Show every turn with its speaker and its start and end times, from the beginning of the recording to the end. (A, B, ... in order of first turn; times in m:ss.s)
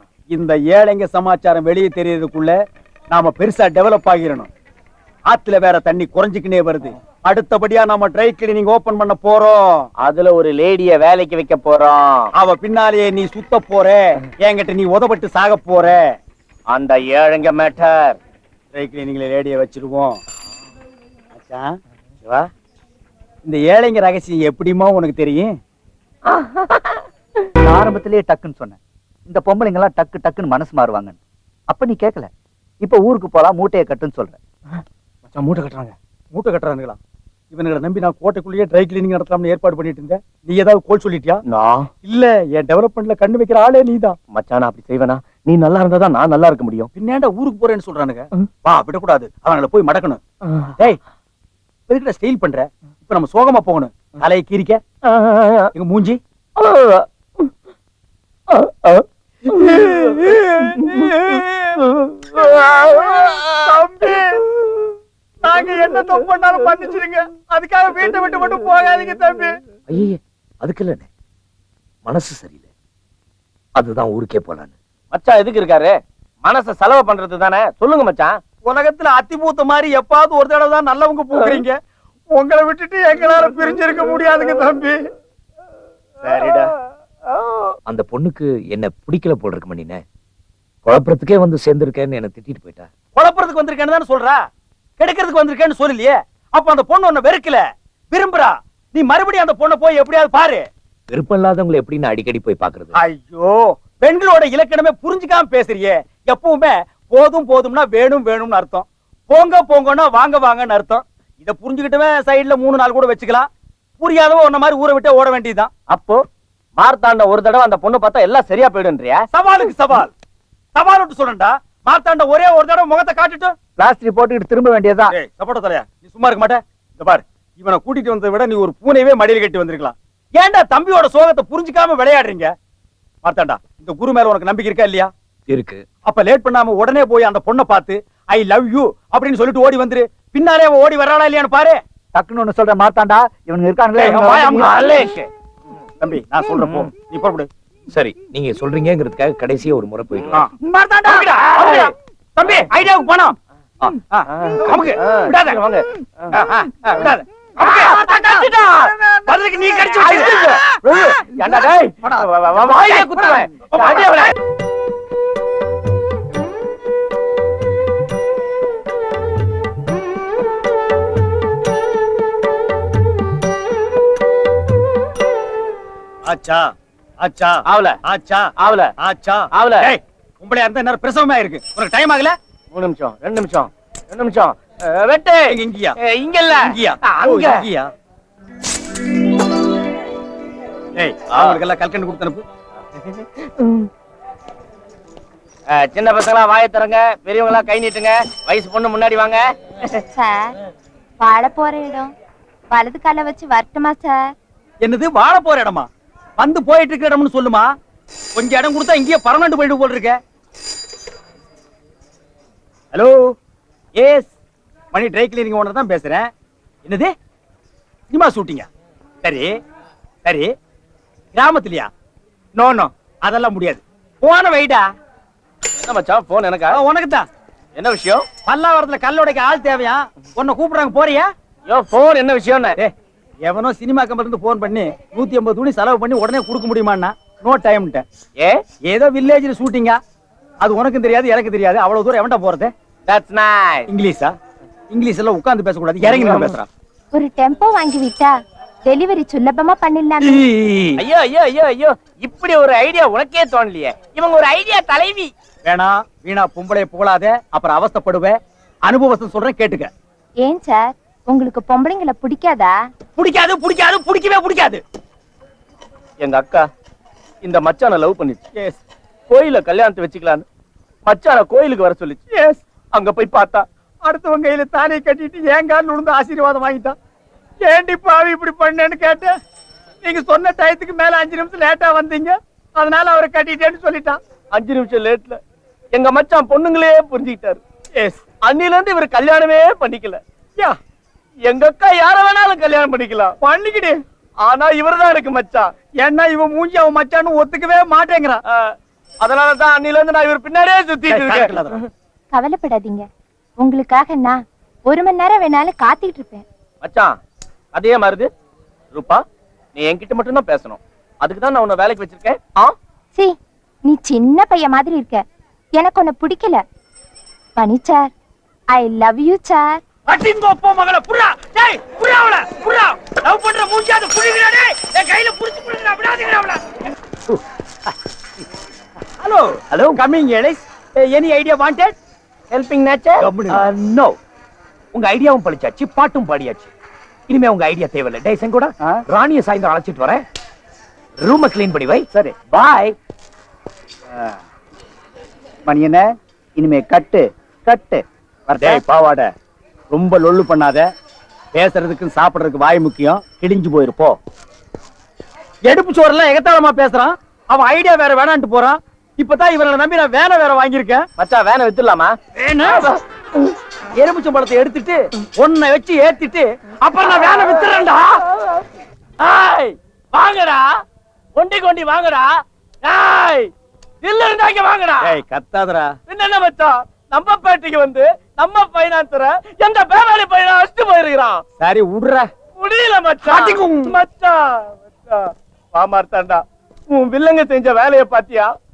0:00.3-0:02.6 A
0:03.1-0:04.5 A
0:05.3-0:09.9 A
0:10.0-0:12.3 B
0:12.4-0:16.1 A
0:16.7-0:18.2 B
0:18.7-0:20.2 A
0:21.4-0:21.8 A
0:23.4-0:25.6 A
0:26.3-0:27.0 B
0:27.6-0:32.3 C
0:32.8-0:34.4 C
0:35.3-0:37.0 A
0:37.5-0:41.4 A
0:41.5-0:41.9 B
0:42.0-0:44.2 A
0:44.3-0:46.9 B
0:47.0-0:50.2 A
0:51.9-0:54.8 A
0:55.0-0:55.7 B
0:55.8-0:56.2 A
0:56.6-0:57.5 B
0:58.5-0:59.0 B
0:59.5-1:01.8 A
0:59.6-1:00.1 B
1:00.8-1:01.1 B
1:01.8-1:03.6 B
1:02.4-1:04.4 A
1:05.4-1:09.6 A
1:09.9-1:11.1 D
1:12.0-1:12.6 D
1:13.8-1:14.7 D
1:15.1-1:18.4 B
1:18.7-1:21.8 A
1:22.3-1:25.0 A
1:26.2-1:26.7 A
1:27.9-1:30.0 D
1:30.8-1:32.9 D
1:33.2-1:34.4 A
1:35.0-1:40.7 A
1:41.1-1:42.9 D
1:43.0-1:53.5 A
1:54.0-1:55.7 A
1:55.9-1:56.2 B
1:56.8-1:59.2 B
1:59.3-2:00.1 A
2:00.8-2:03.5 A
2:03.8-2:05.1 C
2:05.1-2:12.5 A
2:13.2-2:15.1 A
2:15.5-2:15.8 D
2:16.1-2:21.8 A
2:22.2-2:24.7 C
2:24.0-2:24.7 A
2:24.5-2:25.3 B
2:26.0-2:27.5 A
2:27.9-2:30.5 D
2:30.3-2:33.4 A
2:31.5-2:31.9 B
2:34.1-2:35.6 A
2:34.3-2:36.4 B
2:36.3-2:38.3 A
2:37.6-2:39.0 B
2:39.3-2:41.1 A
2:39.9-2:44.4 B
2:42.7-2:44.3 A
2:56.3-3:02.4 A
2:57.7-2:58.0 B
2:58.6-2:58.9 B
2:59.5-2:59.9 B
3:02.7-3:07.6 B
3:05.5-3:06.0 A
3:06.6-3:07.9 A
3:11.0-3:12.4 A
3:11.3-3:11.6 B
3:13.1-3:13.9 B
3:15.7-3:19.4 B
3:20.1-3:20.6 E
3:21.2-3:22.1 E
3:22.7-3:24.3 E
3:24.8-3:25.9 A
3:26.4-3:27.7 A
3:28.4-3:30.2 A
3:32.9-3:33.3 A
3:34.0-3:34.3 A
3:34.9-3:36.3 A
3:36.8-3:37.1 A
3:38.1-3:38.7 A
3:39.2-3:39.6 A
3:40.2-3:40.5 A
3:41.3-3:41.9 A
3:42.6-3:44.9 A
3:45.8-3:46.8 B
3:46.7-3:47.3 A
3:47.8-3:48.2 B
3:48.5-3:51.3 A
3:51.7-3:52.8 B
3:53.4-3:58.0 A
3:58.9-4:00.0 A
4:00.6-4:02.7 A
4:03.1-4:03.9 B
4:03.9-4:04.4 A
4:04.9-4:06.7 A
4:06.0-4:06.5 B
4:07.1-4:10.4 E
4:10.2-4:11.0 A
4:11.0-4:15.3 B
4:15.7-4:19.9 A
4:20.4-4:22.8 E
4:23.2-4:24.8 A
4:26.2-4:26.7 B
4:27.4-4:28.4 B
4:28.6-4:28.8 A
4:29.3-4:30.4 B
4:31.1-4:32.2 B
4:32.3-4:32.6 A
4:32.9-4:33.6 B
4:34.0-4:37.0 A
4:37.6-4:39.3 A
4:40.0-4:44.2 A
4:44.5-4:45.4 B
4:45.9-4:47.6 B
4:48.4-4:50.2 B
4:51.5-4:53.3 B
4:53.4-4:54.0 A
4:54.4-4:55.7 B
4:56.0-4:58.4 A
4:58.5-5:01.9 B
5:01.1-5:01.8 A
5:02.3-5:03.1 E
5:03.6-5:06.4 E
5:06.8-5:07.2 B
5:07.7-5:08.3 B
5:08.9-5:09.2 B
5:09.8-5:12.8 B
5:13.9-5:15.2 E
5:15.8-5:16.6 E
5:17.6-5:18.1 E
5:18.7-5:19.8 E
5:20.1-5:26.7 A
5:29.2-5:32.0 A
5:29.7-5:30.0 D
5:32.5-5:33.2 B
5:33.2-5:33.6 A
5:33.5-5:34.2 D
5:34.9-5:36.7 D
5:37.3-5:40.2 D
5:41.2-5:42.1 D
5:42.1-5:42.9 C
5:45.7-5:48.8 C
5:48.6-5:49.3 A
5:49.9-5:50.9 A
5:51.5-5:54.2 A
5:55.7-6:01.1 A
6:01.2-6:02.2 B
6:02.4-6:02.9 A
6:04.0-6:08.0 A
6:07.2-6:07.9 B
6:09.2-6:10.7 B
6:11.4-6:12.3 B
6:12.8-6:13.5 B
6:14.0-6:15.2 B
6:15.0-6:15.9 A
6:16.1-6:21.4 B
6:21.6-6:22.3 A
6:22.6-6:28.5 B
6:23.2-6:23.9 A